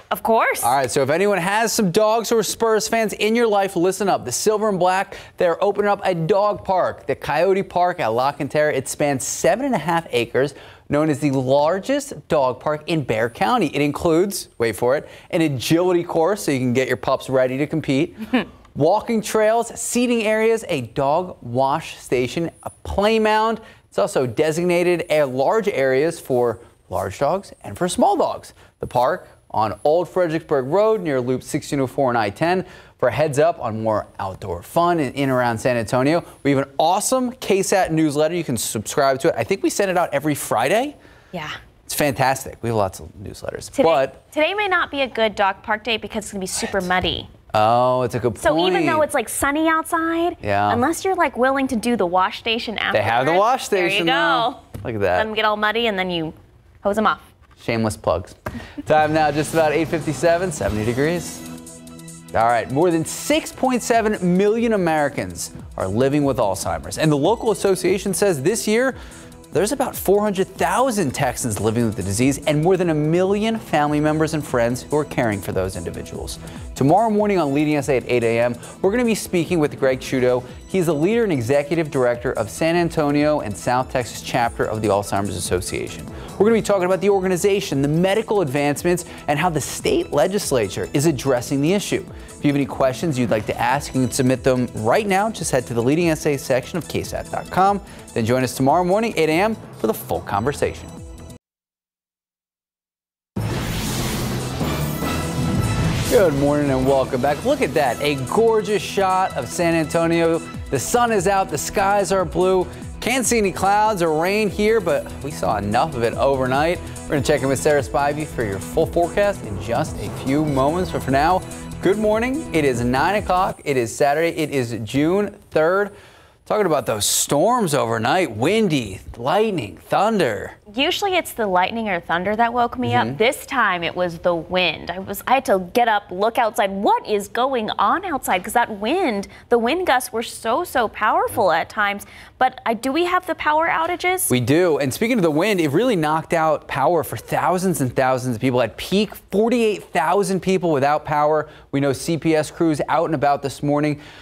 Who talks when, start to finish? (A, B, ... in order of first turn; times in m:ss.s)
0:00.1-0:00.7 A
0:00.6-0:41.0 B
0:41.8-0:44.2 B
0:43.8-0:47.3 A
0:47.5-0:49.1 B
0:48.4-0:54.6 A
0:50.4-0:50.8 B
0:52.9-0:55.3 B
0:55.1-0:57.2 A
0:57.6-1:01.4 B
1:02.3-1:09.0 B
1:09.5-1:40.9 B
1:46.1-2:05.9 B
2:06.4-2:10.6 B
2:10.7-2:24.3 A
2:12.8-2:13.2 B
2:24.3-2:34.0 B